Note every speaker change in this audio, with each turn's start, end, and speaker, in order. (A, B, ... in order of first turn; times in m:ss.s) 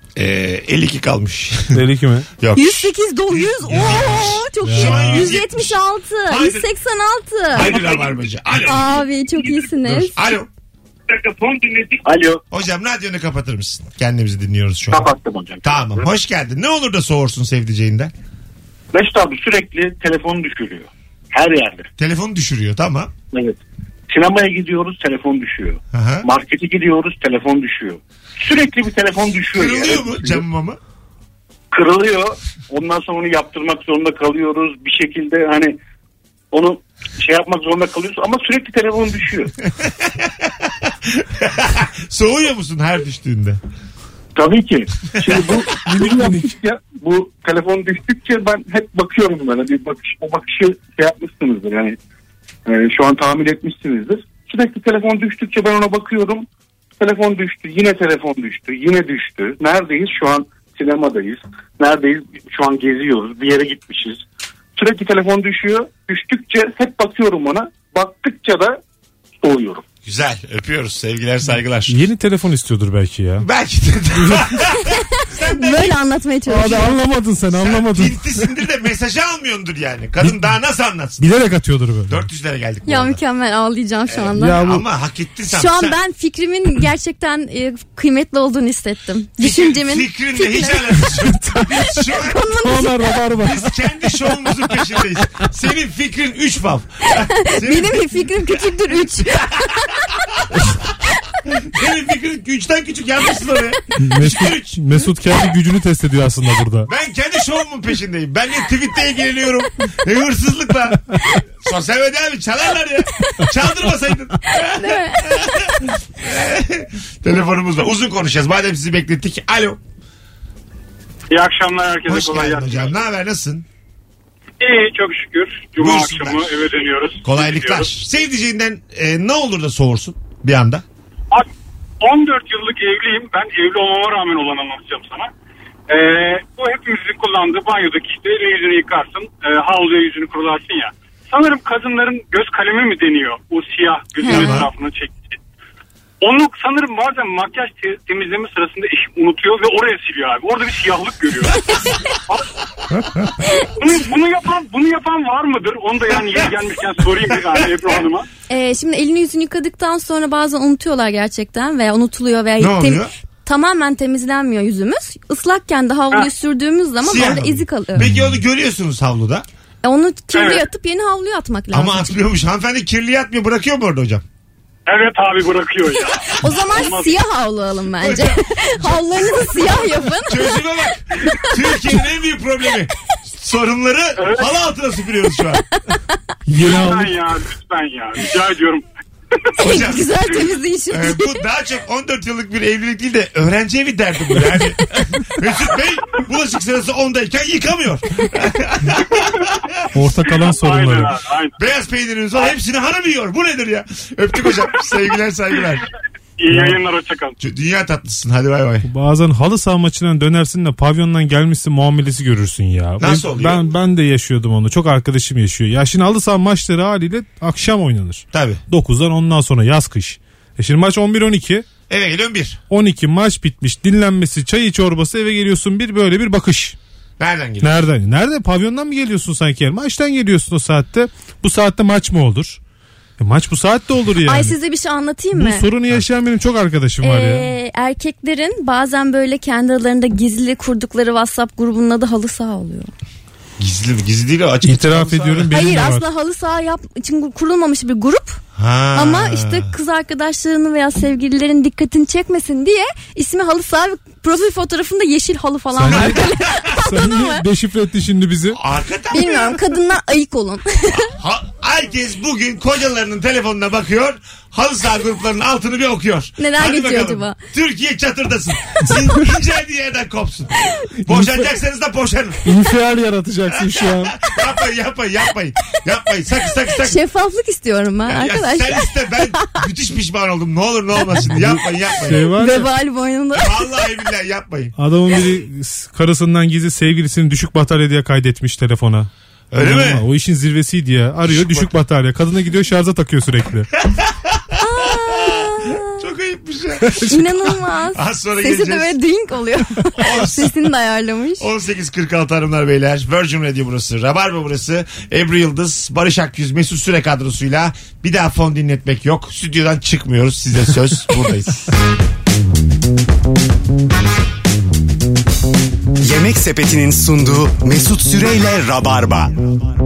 0:00.2-0:01.8 A
0:01.7-0:02.3 B
0:02.4-0:06.7 A
0:02.5-0:07.8 C
0:04.6-0:05.3 B
0:07.5-0:09.0 A
0:08.6-0:10.2 C
0:09.8-0:10.5 A
0:11.1-0:12.4 D
0:12.5-0:15.1 A
0:14.9-0:16.0 D
0:15.6-0:18.1 A
0:18.9-0:21.9 D
0:22.0-0:23.1 A
0:23.3-0:23.6 D
0:24.1-0:30.4 D
0:25.9-0:26.3 A
0:29.5-0:30.8 A
0:31.7-0:35.8 D
0:36.5-0:39.5 D
0:39.8-0:43.6 A
0:44.3-0:52.0 D
0:45.2-0:45.5 A
0:45.8-0:46.5 B
0:52.6-0:56.4 D
0:57.0-1:04.2 D
1:04.8-1:08.8 D
1:09.4-1:09.8 D
1:10.0-1:12.0 A
1:11.9-1:13.4 B
1:13.4-1:16.0 A
1:14.2-1:14.5 B
1:15.4-1:17.0 C
1:16.5-1:18.4 B
1:17.5-1:21.2 A
1:21.2-1:22.2 B
1:22.1-1:23.2 A
1:22.9-1:24.6 C
1:24.1-1:26.0 A
1:24.4-1:24.8 B
1:25.5-1:31.1 C
1:29.4-1:32.4 A
1:32.0-1:33.0 C
1:32.6-1:33.7 B
1:33.4-1:40.6 A
1:37.4-1:40.0 C
1:41.4-1:44.8 A
1:44.0-1:46.9 B
1:46.9-1:59.8 A
1:54.6-1:55.3 C
2:01.3-2:02.9 E
2:02.0-2:03.6 A
2:04.6-2:07.9 E
2:05.8-2:06.6 A
2:07.2-2:10.8 A
2:12.0-2:15.3 E
2:15.9-2:25.4 E
2:24.2-2:24.6 C
2:24.3-2:24.7 A
2:26.2-2:31.6 E
2:33.8-2:38.3 E
2:38.5-2:48.1 C
2:42.6-2:43.1 A
2:47.0-2:49.4 A
2:49.8-2:52.1 C
2:50.3-2:50.6 E
2:51.7-2:54.2 A
2:54.9-2:57.2 E
2:56.4-3:00.6 C
2:58.0-3:05.6 A
3:04.2-3:04.4 E
3:06.5-3:07.1 B
3:06.6-3:08.8 E
3:09.6-3:11.4 C
3:09.6-3:10.1 A
3:10.9-3:19.5 A
3:19.9-3:21.2 B
3:20.2-3:21.6 E
3:21.6-3:25.8 A
3:26.4-3:27.4 E
3:26.5-3:26.8 B
3:27.4-3:28.9 A
3:28.8-3:41.7 B
3:33.0-3:33.7 A
3:38.3-3:38.6 A
3:41.9-3:42.6 A
3:42.7-3:46.8 B
3:47.2-3:47.7 A
3:47.6-3:52.6 B
3:53.2-3:54.6 B
3:54.2-3:55.7 C
3:55.3-3:57.5 B
3:57.0-4:02.9 C
4:03.6-4:05.5 A
4:04.6-4:06.0 B
4:05.5-4:08.4 C
4:08.6-4:09.7 A
4:08.9-4:17.4 C
4:15.7-4:18.6 B
4:15.9-4:16.6 A
4:18.5-4:19.7 A
4:19.1-4:21.1 C
4:20.9-4:32.5 A
4:26.4-4:27.4 C
4:31.0-4:31.4 B
4:32.4-4:34.2 B
4:33.5-4:37.0 A
4:36.7-4:39.5 C
4:38.0-4:42.3 A
4:41.2-4:42.7 B
4:42.3-4:43.8 C
4:43.3-4:44.7 A
4:44.8-4:53.7 B
4:49.5-4:50.0 A
4:51.2-4:51.7 A
4:53.8-4:59.0 A
4:54.6-4:55.9 C
4:57.0-5:01.4 C
4:59.9-5:00.5 A
5:01.4-5:11.7 A
5:16.0-5:19.5 F